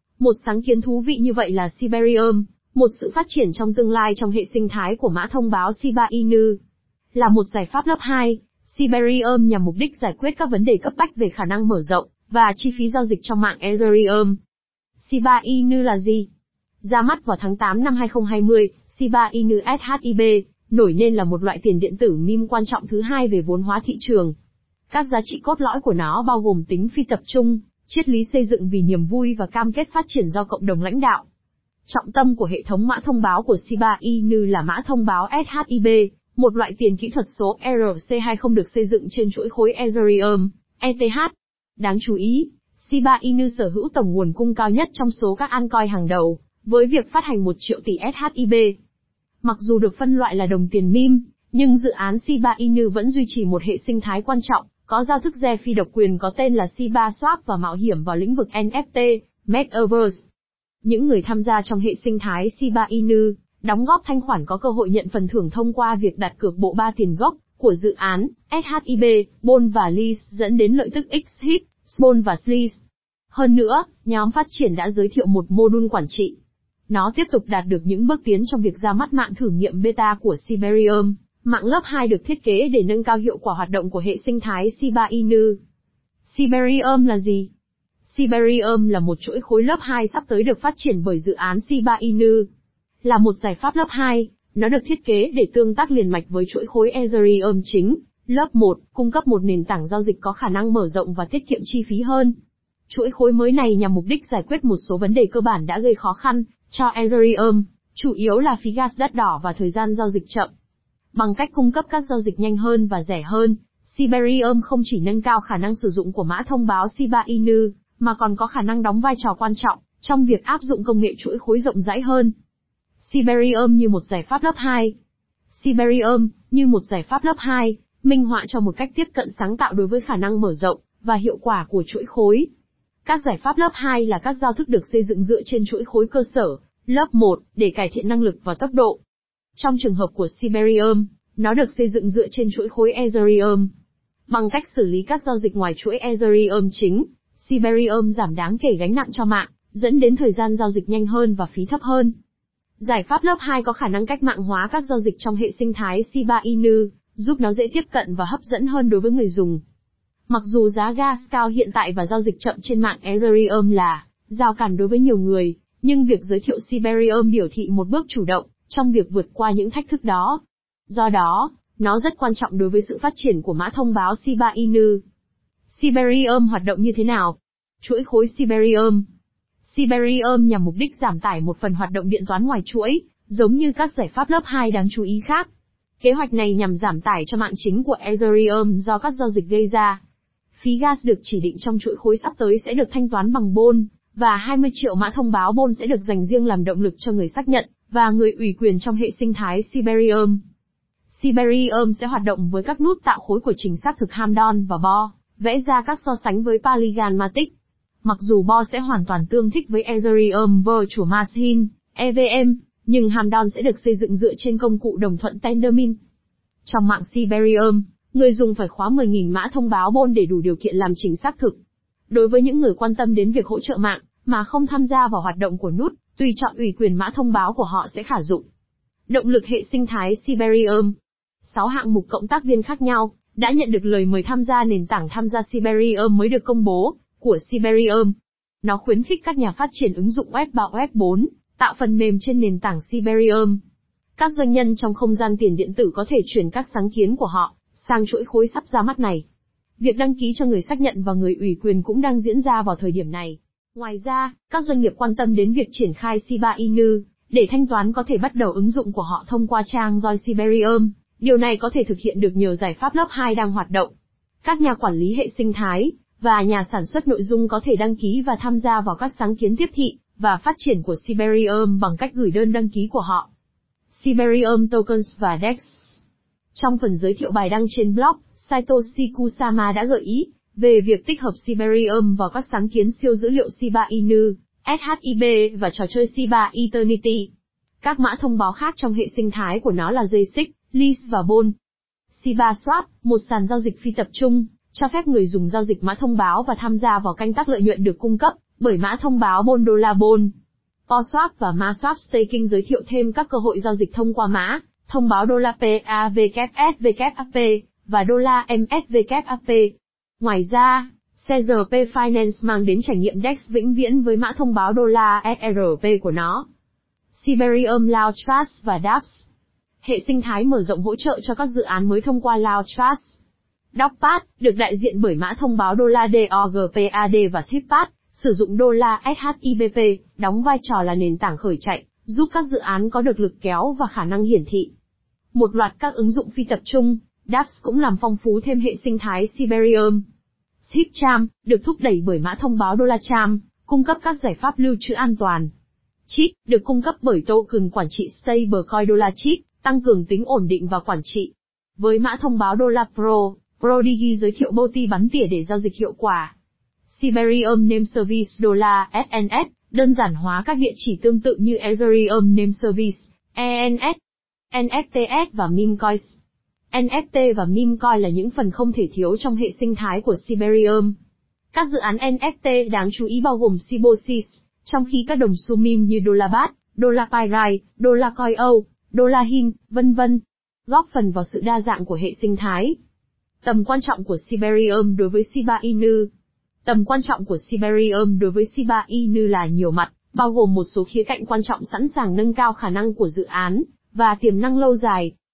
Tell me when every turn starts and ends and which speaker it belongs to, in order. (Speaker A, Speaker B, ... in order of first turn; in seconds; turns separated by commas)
Speaker A: 0.2-6.6, Speaker A: 7.2-14.4, Speaker A: 15.0-16.3, Speaker A: 16.8-24.3, Speaker A: 24.9-31.2, Speaker A: 31.9-48.8, Speaker A: 49.4-60.3, Speaker A: 60.8-72.8, Speaker A: 73.3-76.3, Speaker A: 76.9-85.6, Speaker A: 86.2-87.5, Speaker A: 88.0-92.5, Speaker A: 93.0-102.3, Speaker A: 102.9-110.5, Speaker A: 111.1-122.3, Speaker A: 123.0-125.0, Speaker A: 125.5-132.5, Speaker A: 133.1-139.0, Speaker A: 139.6-143.7, Speaker A: 144.3-152.1, Speaker A: 152.8-159.6, Speaker A: 160.3-175.0, Speaker A: 175.7-179.1, Speaker A: 179.6-185.5, Speaker A: 186.0-190.0, Speaker A: 190.6-200.4, Speaker A: 201.1-207.5, Speaker A: 208.0-216.0, Speaker A: 216.7-221.6, Speaker A: 222.1-228.4, Speaker A: 229.1-243.6, Speaker A: 244.2-249.2, Speaker A: 249.8-263.9, Speaker A: 264.4-273.3, Speaker A: 273.9-276.0, Speaker A: 276.6-287.3, Speaker A: 287.8-291.5, Speaker A: 292.1-300.3, Speaker A: 300.9-316.5, Speaker A: 317.1-319.3, Speaker A: 319.8-323.2, Speaker A: 323.8-334.7, Speaker A: 335.3-340.0, Speaker A: 340.6-345.5, Speaker A: 346.1-356.3, Speaker A: 356.9-364.0, Speaker A: 364.5-366.2, Speaker A: 366.7-370.9, Speaker A: 371.5-382.8, Speaker A: 383.4-386.1, Speaker A: 386.6-395.1